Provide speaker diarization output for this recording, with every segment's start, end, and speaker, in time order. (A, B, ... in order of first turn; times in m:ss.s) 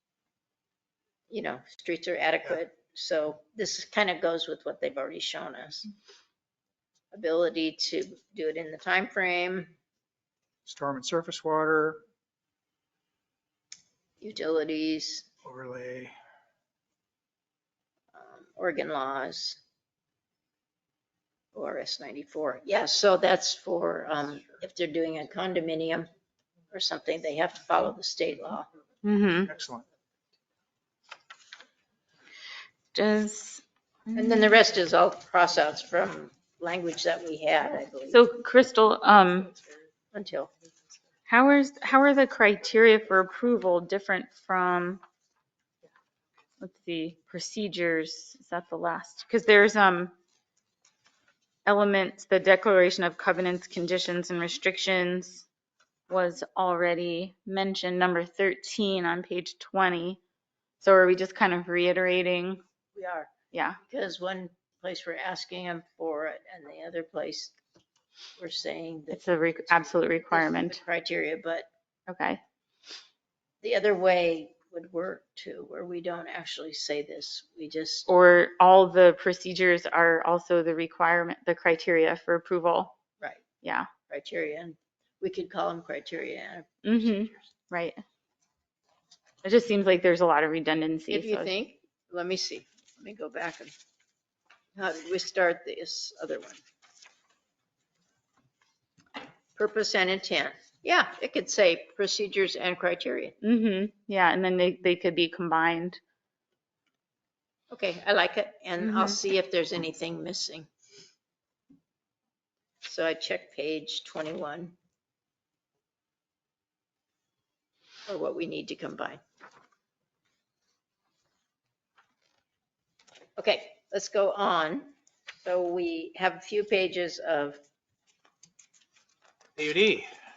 0:01.3-0:05.9 A
0:07.1-0:09.7 A
0:10.6-0:12.0 B
0:14.2-0:15.2 A
0:15.4-0:16.1 B
0:18.1-0:19.6 A
0:21.5-0:26.1 A
0:26.7-0:28.7 A
0:29.0-0:29.5 C
0:29.5-0:29.9 B
0:32.9-0:34.4 C
0:34.1-0:38.2 A
0:38.1-0:39.5 C
0:40.1-0:40.5 A
0:41.3-0:45.0 C
0:46.6-0:50.1 C
0:51.6-0:55.4 C
0:56.1-1:00.2 C
1:00.8-1:02.6 C
1:02.9-1:03.3 A
1:03.5-1:03.8 C
1:03.8-1:07.5 A
1:08.4-1:11.7 A
1:09.1-1:10.8 C
1:12.1-1:12.4 C
1:13.6-1:18.1 A
1:18.1-1:22.9 C
1:23.6-1:23.9 C
1:24.1-1:27.5 A
1:26.8-1:28.0 C
1:29.4-1:31.5 C
1:31.1-1:33.7 A
1:34.8-1:36.6 A
1:39.6-1:43.3 A
1:43.4-1:46.0 C
1:47.7-1:50.7 A
1:48.8-1:49.2 C
1:52.8-1:54.7 A
1:58.1-1:59.2 A
2:03.4-2:04.9 A
2:05.4-2:07.6 A
2:09.6-2:10.1 B